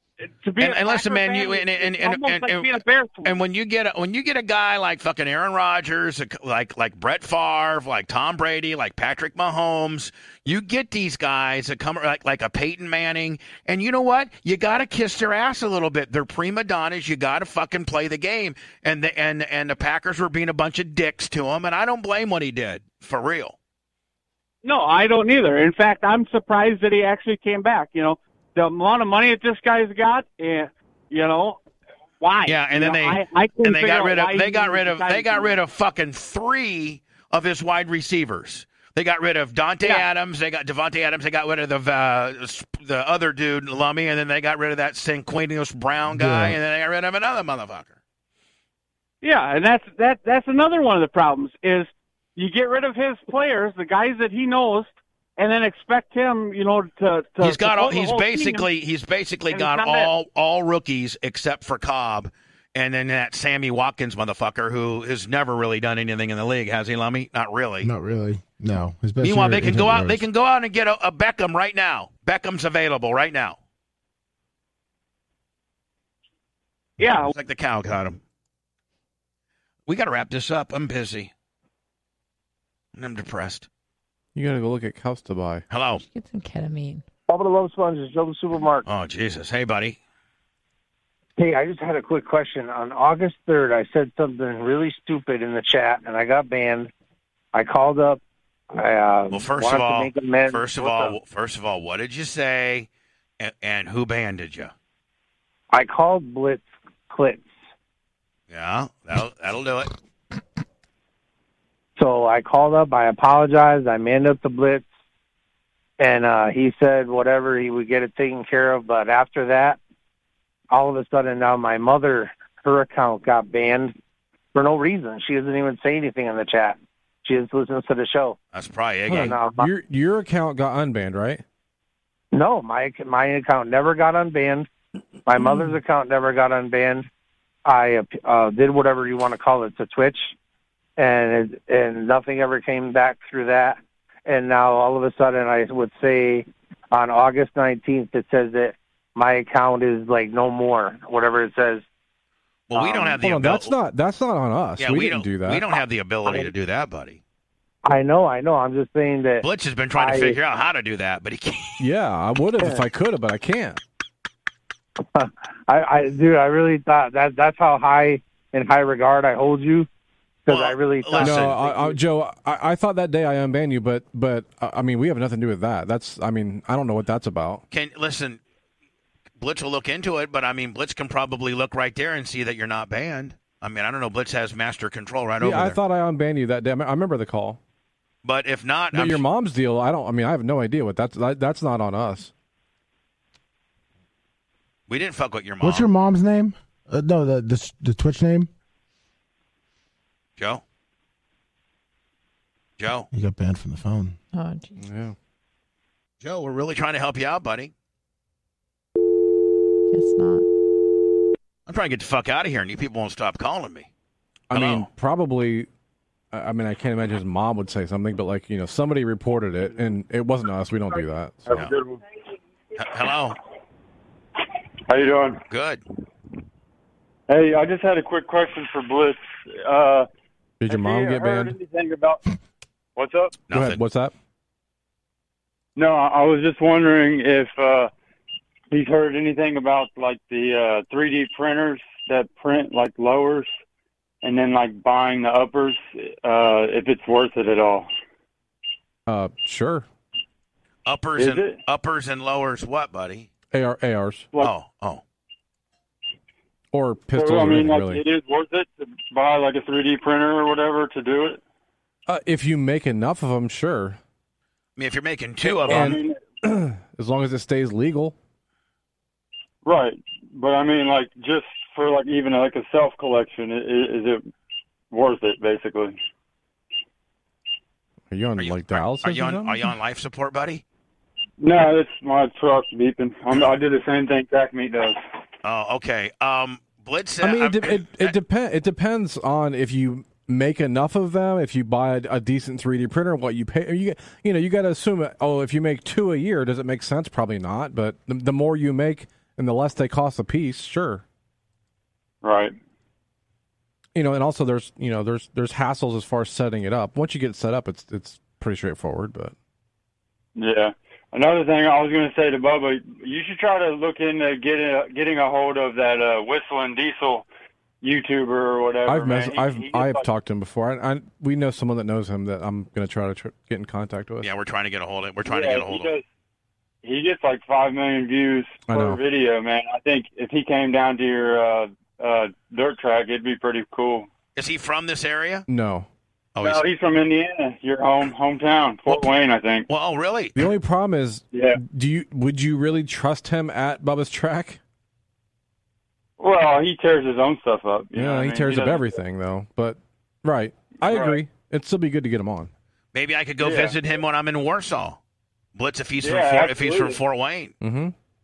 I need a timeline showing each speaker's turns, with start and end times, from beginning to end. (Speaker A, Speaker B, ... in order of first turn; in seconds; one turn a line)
Speaker A: 0.3-3.3
Speaker B: 0.6-23.6
Speaker A: 24.6-31.6
Speaker A: 32.2-35.5
Speaker B: 32.4-48.0
Speaker C: 46.1-46.6
Speaker A: 49.2-58.7
Speaker B: 57.4-67.9
Speaker A: 59.5-60.1
Speaker C: 67.8-70.2
Speaker B: 69.2-73.6
Speaker A: 77.0-77.3
Speaker B: 77.1-78.2
Speaker B: 79.9-81.3
Speaker B: 82.9-83.7
Speaker D: 84.3-85.6
Speaker B: 85.7-86.0
Speaker E: 86.0-87.0
Speaker F: 87.3-88.8
Speaker B: 88.8-90.0
Speaker F: 91.4-96.9
Speaker F: 97.5-98.2
Speaker F: 98.7-101.2
Speaker B: 99.3-102.9
Speaker B: 103.4-104.7
Speaker F: 105.7-107.5
Speaker B: 108.5-109.9
Speaker F: 112.0-114.8
Speaker F: 116.0-119.8
Speaker F: 120.7-123.9
Speaker F: 124.5-128.4
Speaker B: 128.5-129.4
Speaker D: 129.1-131.4
Speaker F: 129.1-129.7
Speaker F: 132.3-134.7
Speaker F: 135.3-137.1
Speaker F: 137.7-140.3
Speaker F: 141.0-151.8
Speaker B: 152.7-153.7
Speaker F: 152.7-153.2
Speaker D: 153.1-155.7
Speaker B: 154.8-157.2
Speaker F: 156.2-156.5
Speaker F: 157.8-160.4
Speaker B: 159.4-161.8
Speaker D: 161.8-163.8
Speaker F: 165.1-169.9
Speaker F: 170.5-172.0
Speaker B: 170.5-171.6
Speaker D: 171.2-177.6
Speaker B: 177.7-178.4
Speaker B: 179.4-185.8
Speaker D: 185.4-187.6
Speaker B: 188.2-189.2
Speaker D: 188.9-192.3
Speaker B: 194.9-195.9
Speaker C: 195.6-198.5
Speaker B: 200.4-200.6
Speaker B: 202.8-203.1
Speaker C: 203.1-204.2
Speaker E: 204.3-204.8
Speaker D: 204.8-205.1
Speaker B: 206.2-207.7
Speaker E: 209.9-210.4
Speaker B: 211.7-213.9
Speaker D: 214.5-215.7
Speaker B: 214.5-214.9
Speaker D: 216.3-221.6
Speaker G: 221.4-222.0
Speaker B: 222.8-223.4
Speaker G: 224.9-225.4
Speaker B: 225.5-225.8
Speaker G: 227.3-230.1
Speaker D: 230.6-231.6
Speaker G: 230.7-232.2
Speaker G: 232.9-233.4
Speaker B: 233.5-233.8
Speaker D: 233.5-234.1
Speaker G: 235.8-237.9
Speaker G: 238.7-243.5
Speaker G: 244.2-247.9
Speaker D: 249.1-249.8
Speaker B: 250.8-253.3
Speaker G: 251.2-251.6
Speaker D: 253.5-254.3
Speaker B: 254.4-255.0
Speaker D: 256.7-258.0
Speaker G: 257.1-261.4
Speaker D: 262.1-264.0
Speaker B: 264.8-266.0
Speaker G: 265.4-266.2
Speaker D: 265.7-268.1
Speaker G: 269.6-274.2
Speaker G: 274.9-275.9
Speaker D: 278.1-279.7
Speaker B: 278.4-280.6
Speaker G: 281.4-285.0
Speaker B: 285.4-288.1
Speaker D: 287.2-301.0
Speaker G: 302.2-302.6
Speaker D: 303.9-309.3
Speaker G: 310.4-317.2
Speaker G: 317.8-320.1
Speaker D: 318.9-324.3
Speaker B: 324.2-325.9
Speaker G: 325.2-326.0
Speaker G: 326.8-334.1
Speaker D: 328.7-329.0
Speaker B: 334.4-335.4
Speaker D: 335.5-335.9
Speaker B: 336.4-336.6
Speaker G: 336.4-339.6
Speaker B: 339.7-340.4
Speaker D: 340.4-344.6
Speaker G: 341.3-341.6
Speaker G: 346.2-349.0
Speaker D: 347.9-352.5
Speaker G: 350.9-351.2
Speaker B: 352.9-355.0
Speaker G: 353.4-353.8
Speaker B: 355.6-357.5
Speaker G: 356.0-357.0
Speaker D: 357.6-357.9